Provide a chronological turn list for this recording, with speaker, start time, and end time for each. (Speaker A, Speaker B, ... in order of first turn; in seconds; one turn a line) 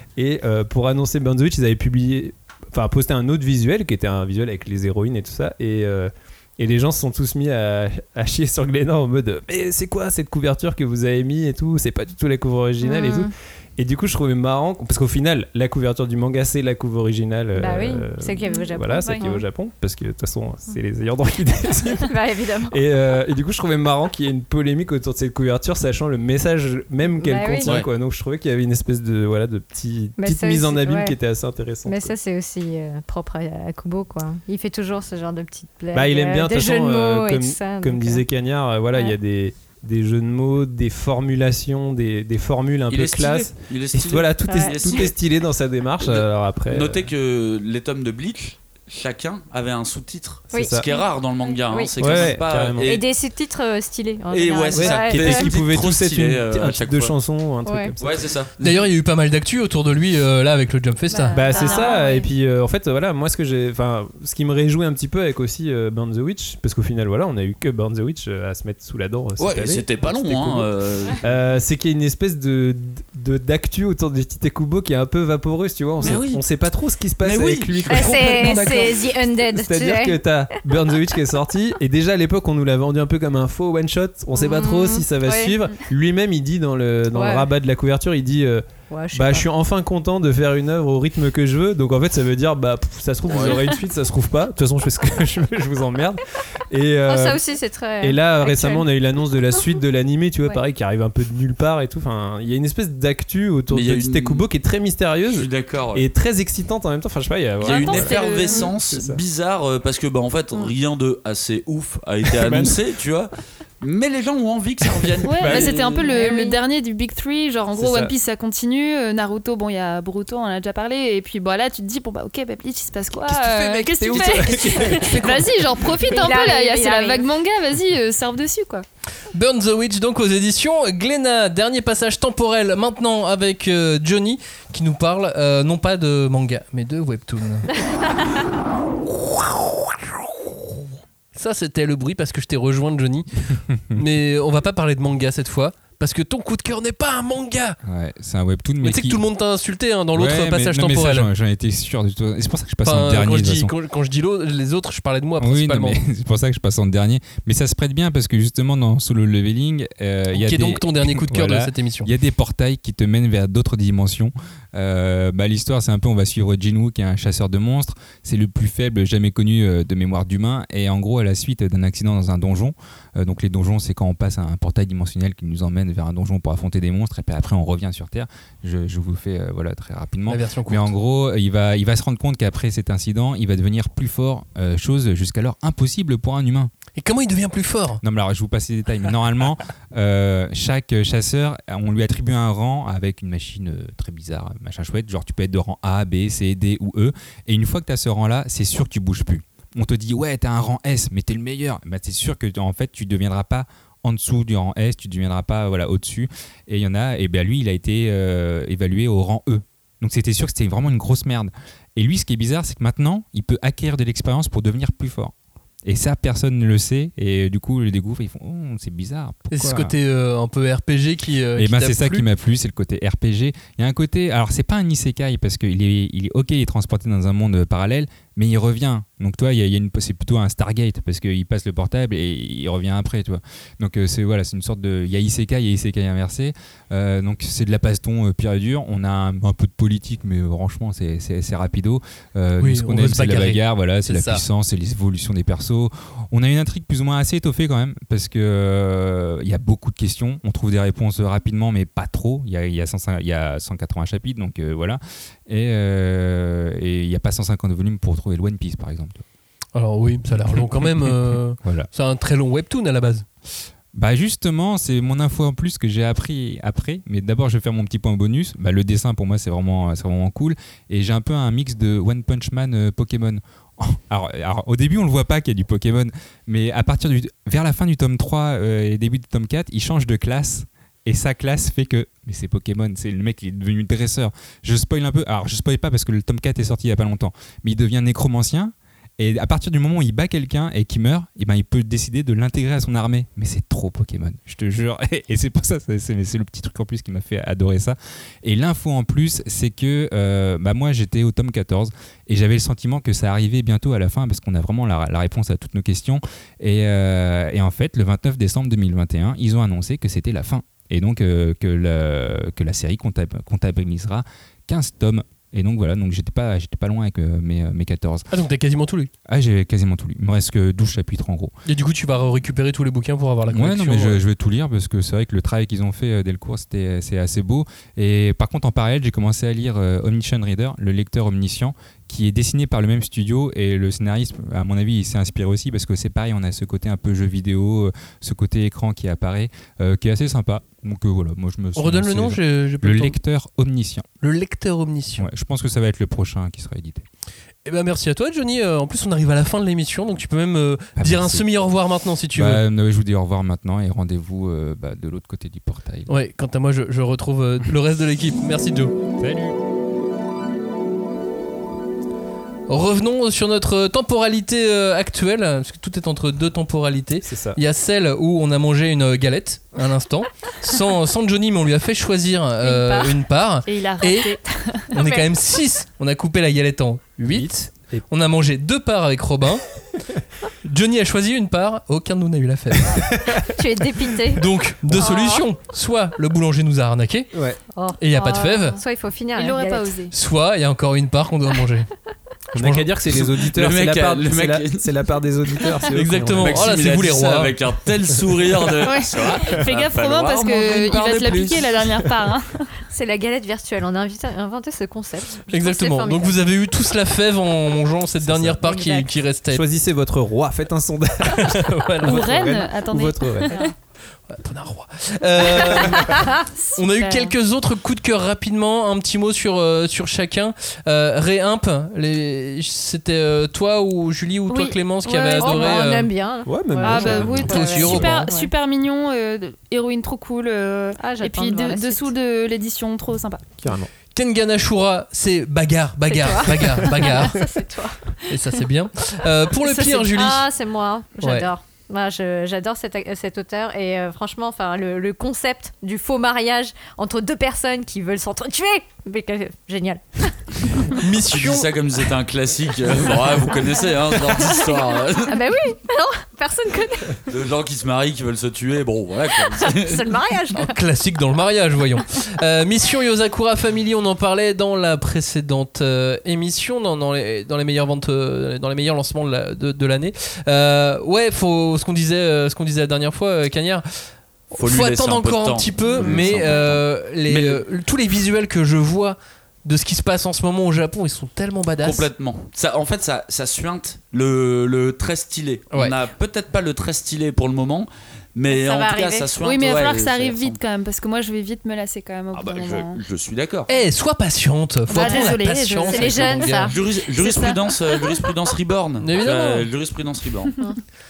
Speaker A: 0.2-22.1
Speaker B: 12.8-13.3
Speaker B: 17.6-19.4
Speaker C: 18.4-19.3
Speaker B: 22.1-22.8
Speaker A: 22.7-32.1
Speaker B: 27.2-27.8
Speaker B: 30.2-31.2
Speaker B: 31.9-38.2
Speaker A: 35.9-47.1
Speaker D: 42.9-45.1
Speaker B: 44.5-45.0
Speaker D: 46.0-53.0
Speaker B: 50.5-50.8
Speaker A: 50.5-50.9
Speaker B: 51.7-55.5
Speaker A: 52.0-52.9
Speaker D: 54.3-57.1
Speaker A: 54.7-58.8
Speaker B: 57.6-58.0
Speaker D: 58.0-58.5
Speaker E: 58.6-61.4
Speaker C: 61.1-62.3
Speaker B: 61.4-62.3
Speaker A: 61.4-70.7
Speaker D: 69.4-71.4
Speaker A: 71.2-78.9
Speaker D: 76.0-76.4
Speaker D: 77.2-79.0
Speaker B: 77.9-80.2
Speaker A: 79.5-97.4
Speaker B: 84.3-85.6
Speaker B: 87.1-87.5
Speaker B: 88.9-89.5
Speaker D: 93.3-93.7
Speaker B: 97.1-98.9
Speaker A: 98.0-109.2
Speaker D: 103.7-104.5
Speaker D: 105.3-106.0
Speaker C: 107.6-108.7
Speaker D: 107.6-116.1
Speaker A: 112.3-112.8
Speaker C: 115.2-128.8
Speaker A: 115.4-115.8
Speaker B: 116.0-116.6
Speaker A: 117.7-118.1
Speaker A: 123.2-126.1
Speaker B: 126.1-127.3
Speaker E: 129.3-137.7
Speaker E: 139.2-139.8
Speaker E: 141.3-147.8
Speaker F: 147.9-149.2
Speaker E: 148.8-151.3
Speaker F: 150.2-153.7
Speaker E: 152.8-156.0
Speaker F: 155.4-186.7
Speaker E: 160.3-162.1
Speaker E: 180.3-180.9
Speaker E: 187.0-188.0
Speaker F: 188.0-215.3
Speaker F: 215.8-219.9
Speaker E: 219.5-222.3
Speaker F: 221.6-259.2
Speaker E: 242.6-244.4
Speaker E: 259.8-263.3
Speaker F: 261.6-261.9
Speaker F: 263.9-318.3
Speaker E: 318.3-319.1
Speaker F: 319.3-321.5
Speaker E: 321.7-324.2
Speaker F: 323.5-344.1
Speaker E: 341.8-343.2
Speaker E: 344.2-345.3
Speaker F: 345.2-347.1
Speaker E: 347.7-352.6
Speaker F: 351.0-351.5
Speaker F: 352.3-356.1
Speaker E: 356.1-358.9
Speaker A: 359.2-359.6
Speaker E: 362.7-374.4
Speaker A: 367.2-367.6
Speaker B: 372.6-373.2
Speaker C: 373.6-374.9
Speaker E: 374.9-379.7
Speaker B: 374.9-375.3
Speaker A: 377.3-378.1
Speaker E: 380.6-383.2
Speaker A: 382.9-383.4
Speaker B: 383.5-385.5
Speaker E: 384.4-387.3
Speaker A: 387.3-387.6
Speaker B: 387.7-389.9
Speaker E: 388.0-388.8
Speaker C: 388.1-388.8
Speaker C: 389.3-390.1
Speaker E: 390.1-391.9
Speaker E: 392.5-392.9
Speaker A: 392.6-396.8
Speaker D: 393.1-394.9
Speaker E: 395.9-397.5
Speaker D: 396.4-401.8
Speaker C: 398.8-402.7
Speaker B: 402.9-406.4
Speaker E: 405.5-409.6
Speaker A: 408.2-408.6
Speaker B: 408.6-409.1
Speaker A: 409.5-413.6
Speaker E: 411.3-412.6
Speaker C: 412.0-413.7
Speaker E: 414.3-416.2
Speaker B: 416.0-416.4
Speaker C: 416.5-417.4
Speaker E: 416.8-426.1
Speaker C: 424.5-425.8
Speaker B: 425.4-428.5
Speaker A: 426.5-428.2
Speaker C: 426.8-433.5
Speaker E: 427.2-428.3
Speaker B: 431.0-432.1
Speaker A: 433.6-433.9
Speaker E: 434.1-437.4
Speaker B: 436.1-438.6
Speaker E: 438.3-440.5
Speaker B: 439.5-450.5
Speaker E: 441.2-441.5
Speaker E: 450.9-451.7
Speaker D: 451.3-455.4
Speaker B: 455.2-457.2
Speaker D: 457.3-460.2
Speaker B: 459.4-460.8
Speaker E: 460.6-482.1
Speaker D: 474.6-477.6
Speaker D: 481.8-490.6
Speaker B: 488.5-489.3
Speaker C: 489.4-493.0
Speaker D: 492.3-493.7
Speaker E: 493.7-496.7
Speaker C: 494.9-498.2
Speaker B: 495.0-495.3
Speaker B: 495.9-496.8
Speaker D: 496.7-500.5
Speaker E: 499.0-499.7